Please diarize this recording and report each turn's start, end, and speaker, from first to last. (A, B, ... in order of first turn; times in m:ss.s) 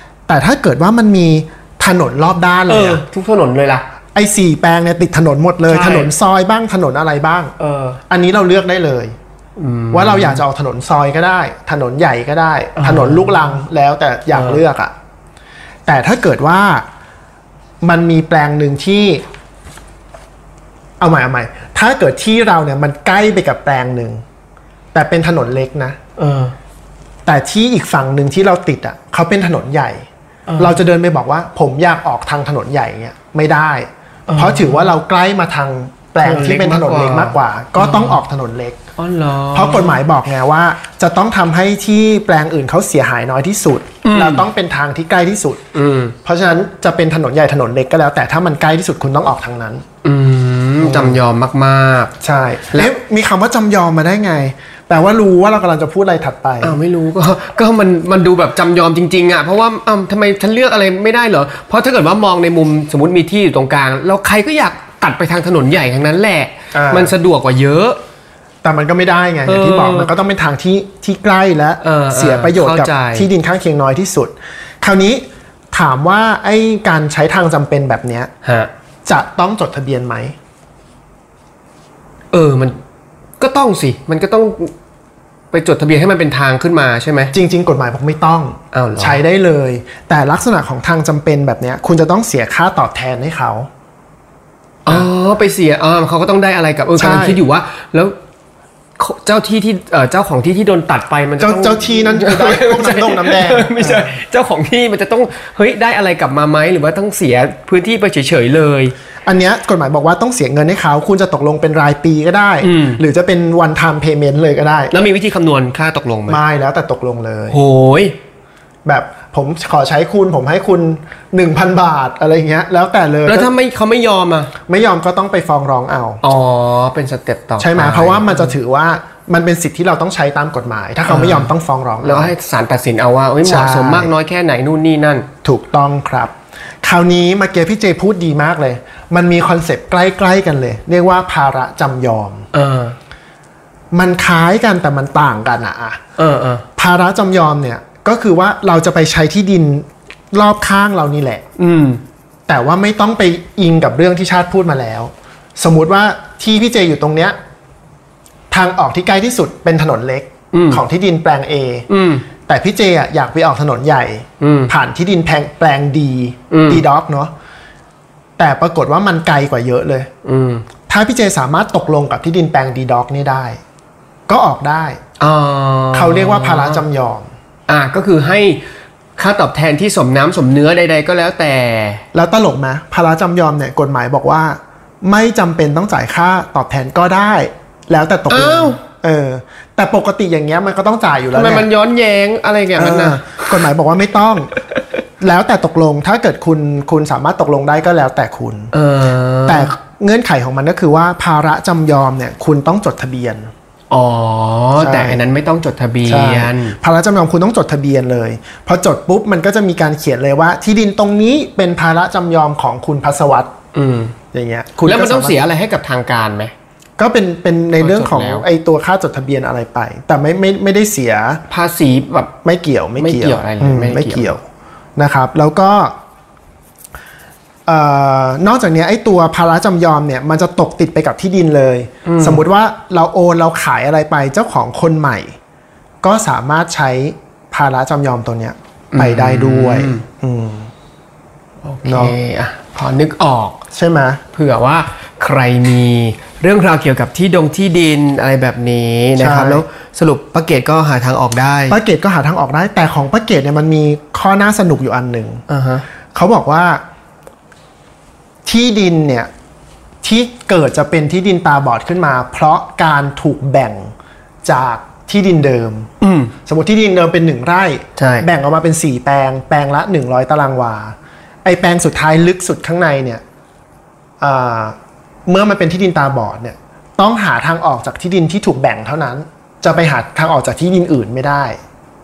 0:00.3-0:03.0 A
0:02.7-0:03.9 B
0:04.1-0:07.5 A
0:05.6-0:06.1 B
0:07.6-0:08.0 B
0:08.1-0:09.2 A
0:09.6-0:10.4 B
0:09.9-0:14.9 A
0:12.8-0:13.6 B
0:14.3-0:14.6 B
0:15.9-0:16.8 A
0:17.8-0:19.2 A
0:21.0-0:24.2 A
0:24.9-0:26.0 A
0:26.2-0:26.6 B
0:27.3-0:30.1 A
0:30.5-0:30.8 B
0:30.6-0:38.8 A
0:34.3-0:34.9 B
0:36.2-0:38.2 B
0:39.0-0:40.0 B
0:39.5-0:45.6 A
0:44.0-0:44.5 B
0:45.7-0:46.2 B
0:46.2-0:49.8 A
0:50.0-0:52.1 B
0:50.8-0:51.2 A
0:52.2-0:56.8 A
0:56.6-1:08.0 B
1:06.7-1:07.1 A
1:08.6-1:18.3 A
1:09.4-1:10.1 B
1:11.8-1:13.3 B
1:18.4-1:18.7 B
1:19.0-1:20.4 A
1:22.3-1:22.8 B
1:23.4-1:24.7 B
1:25.5-1:27.4 B
1:27.3-1:33.7 A
1:28.7-1:29.2 B
1:34.8-1:38.2 B
1:37.0-1:37.4 A
1:39.0-1:48.9 B
1:41.4-1:44.2 A
1:49.2-1:54.9 A
1:52.6-1:53.0 B
1:54.9-1:56.4 B
1:56.3-1:57.6 A
1:57.5-1:58.2 B
1:58.8-2:03.5 A
2:03.3-2:04.5 B
2:04.7-2:06.2 A
2:06.2-2:08.6 B
2:07.6-2:12.3 A
2:11.0-2:15.3 B
2:13.4-2:14.1 A
2:15.4-2:22.5 A
2:22.5-2:23.0 B
2:23.9-2:26.0 A
2:26.2-2:26.7 B
2:26.8-2:31.4 A
2:31.6-2:32.0 B
2:32.5-2:37.4 A
2:38.5-2:41.9 A
2:40.5-2:40.8 B
2:41.9-2:42.3 B
2:42.5-2:47.3 A
2:44.4-2:44.7 B
2:46.5-2:46.8 B
2:48.4-2:50.1 A
2:50.2-2:50.7 B
2:50.9-2:53.6 A
2:54.3-2:55.0 A
2:55.2-2:56.8 B
2:55.9-2:57.3 A
2:57.7-2:58.6 B
2:59.2-3:02.0 B
3:02.1-3:11.7 A
3:08.3-3:08.8 B
3:11.3-3:13.7 B
3:12.8-3:14.5 A
3:15.2-3:18.7 A
3:18.7-3:19.7 B
3:19.4-3:23.5 A
3:23.9-3:26.8 B
3:24.8-3:25.2 A
3:26.0-3:33.5 A
3:33.7-3:34.2 B
3:34.3-3:35.4 A
3:34.8-3:36.5 B
3:37.0-3:41.4 A
3:37.8-3:38.5 B
3:41.5-3:42.3 B
3:42.4-3:44.4 A
3:43.0-3:44.3 B
3:45.0-3:45.9 A
3:47.7-3:55.3 A
3:52.0-3:52.4 B
3:56.0-4:00.7 A
3:58.9-4:00.0 B
4:01.6-4:03.6 B
4:01.8-4:02.2 A
4:03.7-4:04.2 A
4:04.3-4:11.8 B
4:09.2-4:09.6 A
4:11.7-4:15.4 A
4:15.5-4:15.8 B
4:16.1-4:16.8 A
4:18.4-4:19.3 A
4:20.0-4:23.9 A
4:24.4-4:25.9 A
4:26.0-4:26.3 B
4:26.5-4:33.2 A
4:28.0-4:28.3 B
4:34.2-4:41.6 A